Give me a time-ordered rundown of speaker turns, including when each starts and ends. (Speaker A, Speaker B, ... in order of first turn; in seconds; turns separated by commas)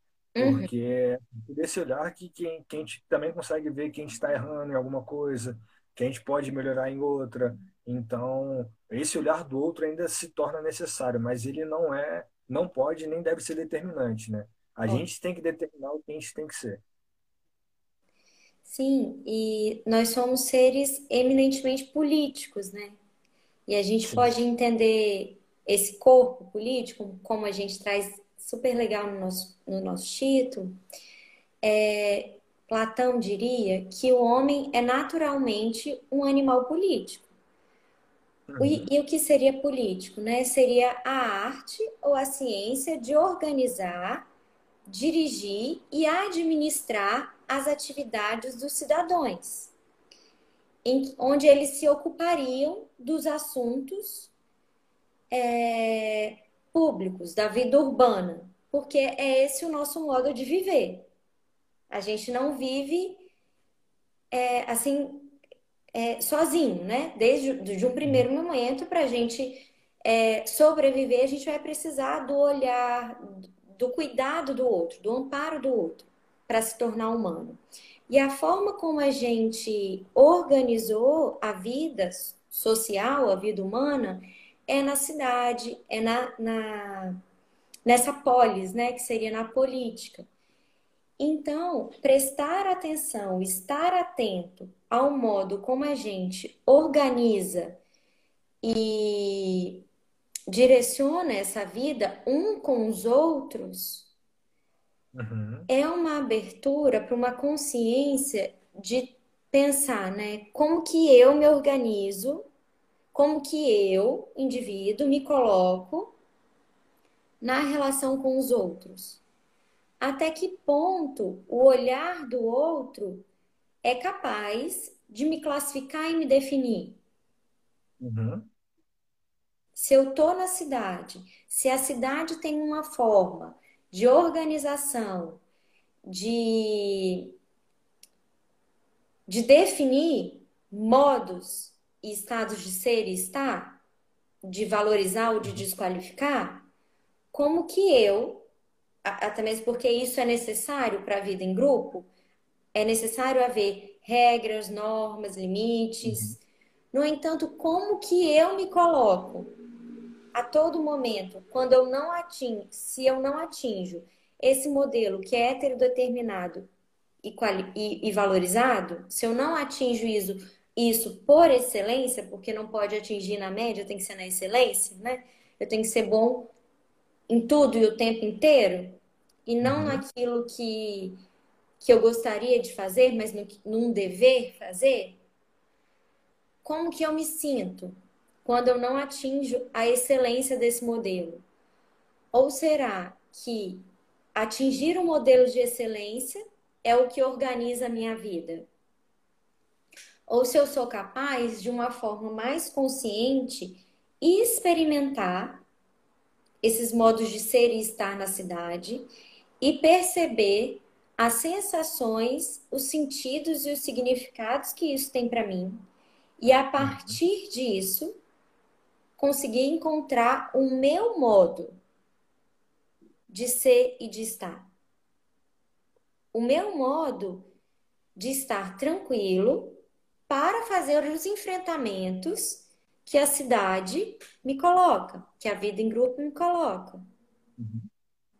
Speaker A: 0.4-0.7, Speaker B: 0.4-16.8, Speaker A: 18.6-23.0, Speaker A: 23.7-30.8, Speaker B: 24.1-24.3, Speaker A: 31.6-37.3, Speaker B: 38.5-38.9, Speaker A: 38.6-44.3, Speaker A: 44.9-49.7, Speaker A: 50.9-54.3, Speaker A: 55.3-61.1, Speaker A: 61.9-63.3, Speaker A: 64.3-65.4, Speaker A: 65.9-73.2, Speaker A: 73.7-87.2, Speaker A: 87.9-90.3, Speaker A: 91.2-97.8, Speaker A: 98.6-99.8, Speaker A: 100.5-104.1, Speaker B: 105.1-105.7, Speaker A: 105.7-112.5, Speaker A: 113.1-116.1, Speaker A: 117.4-119.2, Speaker A: 120.0-123.3, Speaker A: 123.8-127.0, Speaker B: 128.0-128.5, Speaker A: 129.8-135.4, Speaker A: 136.1-137.3, Speaker A: 139.3-143.8, Speaker A: 144.4-146.7, Speaker A: 147.3-148.5, Speaker A: 149.1-152.1, Speaker A: 152.7-156.4, Speaker B: 156.0-156.3, Speaker A: 156.9-159.5, Speaker A: 160.3-166.7, Speaker A: 167.2-176.5, Speaker A: 177.3-181.2, Speaker B: 179.6-180.0, Speaker A: 181.8-185.2, Speaker A: 186.6-191.4, Speaker A: 192.3-198.7, Speaker A: 200.3-205.6, Speaker A: 206.6-209.1, Speaker A: 209.6-215.8, Speaker A: 216.4-218.2, Speaker B: 216.8-217.2, Speaker A: 219.2-221.8, Speaker A: 223.3-224.7, Speaker A: 226.3-227.5, Speaker A: 228.2-237.0, Speaker B: 237.6-237.9